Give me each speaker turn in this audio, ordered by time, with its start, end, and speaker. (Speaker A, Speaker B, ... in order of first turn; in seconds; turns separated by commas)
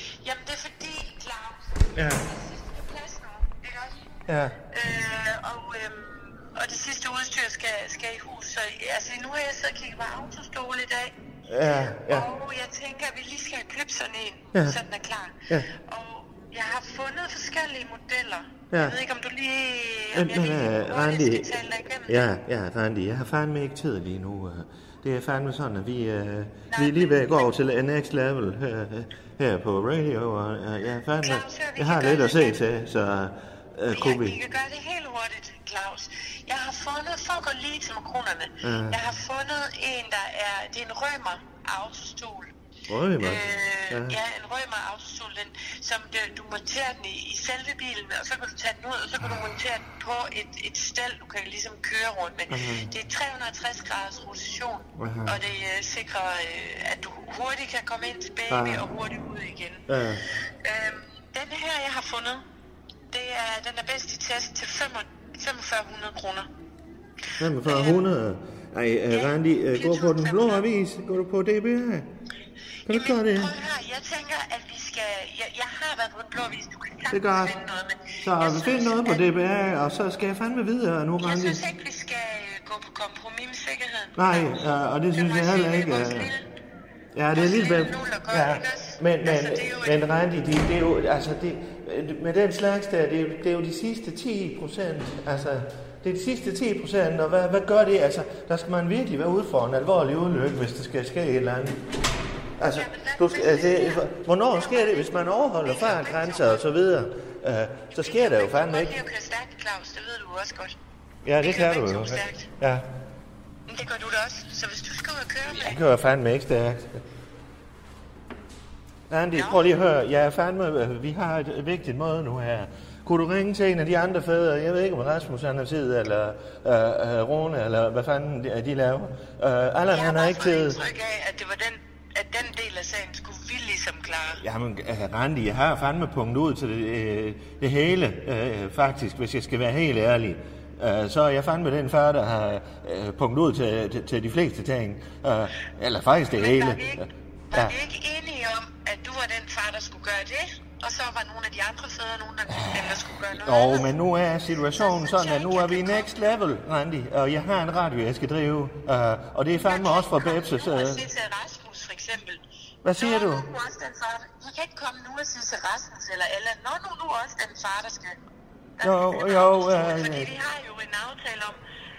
Speaker A: 0.2-4.1, Speaker B: 1.9-2.2, Speaker B: 4.3-4.5, Speaker A: 4.7-11.1, Speaker B: 11.5-12.3, Speaker A: 11.8-22.3, Speaker B: 14.5-14.8, Speaker B: 18.7-18.9, Speaker B: 20.1-21.5, Speaker B: 22.1-34.4, Speaker A: 26.7-27.5, Speaker A: 31.2-32.6, Speaker A: 33.9-42.5, Speaker B: 38.6-39.0, Speaker B: 42.9-44.2, Speaker A: 43.2-59.8, Speaker B: 52.5-52.9, Speaker B: 55.0-55.4, Speaker B: 58.5-58.8, Speaker B: 59.9-60.2, Speaker A: 60.4-62.4, Speaker A: 63.1-66.5, Speaker B: 67.4-72.1, Speaker A: 67.6-68.0, Speaker A: 69.1-70.7, Speaker B: 72.8-73.5, Speaker A: 72.9-79.3, Speaker B: 77.1-77.6, Speaker B: 78.2-81.6, Speaker A: 81.2-86.4, Speaker B: 84.2-86.3, Speaker B: 87.1-101.8, Speaker A: 87.3-90.0, Speaker B: 102.6-109.0, Speaker A: 102.7-106.6, Speaker A: 107.9-110.8, Speaker B: 111.2-112.9, Speaker A: 111.4-112.5, Speaker A: 113.7-115.8, Speaker B: 115.5-117.0, Speaker B: 119.1-130.8, Speaker A: 119.3-119.6, Speaker A: 129.9-134.4, Speaker B: 134.4-147.7, Speaker A: 146.3-153.9, Speaker B: 152.5-152.8, Speaker B: 153.4-161.1, Speaker A: 154.7-156.1, Speaker A: 159.6-162.4, Speaker B: 162.8-163.5, Speaker A: 163.0-168.2, Speaker A: 168.8-171.6, Speaker B: 168.8-170.3